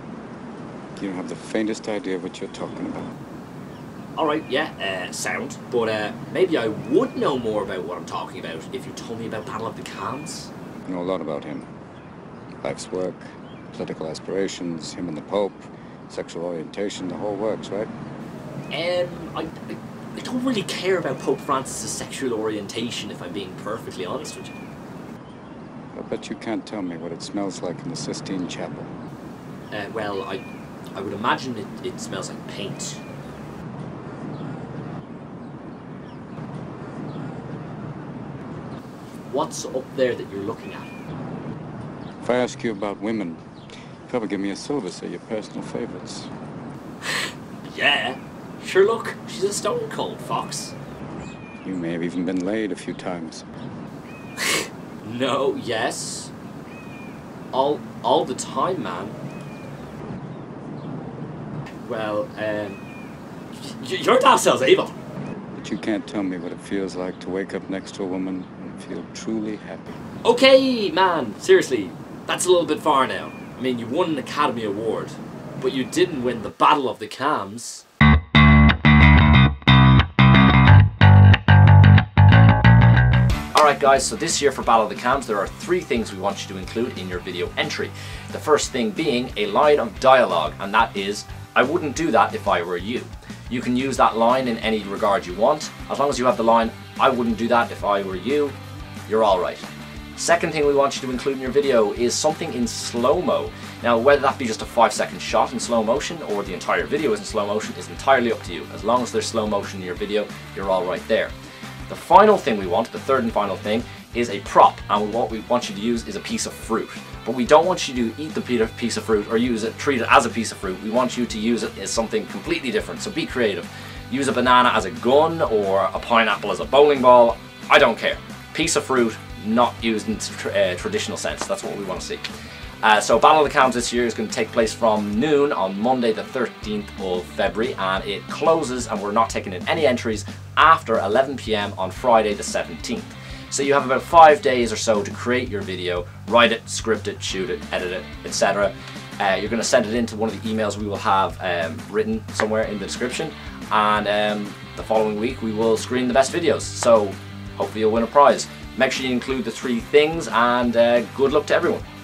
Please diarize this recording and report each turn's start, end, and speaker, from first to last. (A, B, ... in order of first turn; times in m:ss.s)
0:01.0-0:03.1 A
0:04.2-0:10.5 B
0:10.8-0:11.7 A
0:12.6-0:17.9 A
0:18.7-0:24.6 B
0:25.9-0:28.9 A
0:29.7-0:33.0 B
0:39.3-0:40.9 B
0:42.2-0:43.4 A
0:44.1-0:46.3 A
0:47.7-0:50.7 B
0:51.6-0:53.4 A
0:54.4-0:56.3 B
0:57.5-0:59.2 B
1:01.8-1:02.8 B
1:03.5-1:05.0 B
1:05.5-1:10.0 A
1:10.2-1:17.8 B
1:23.5-1:38.5 B
1:39.1-1:51.3 B
1:51.9-2:12.2 B
2:12.8-2:41.8 B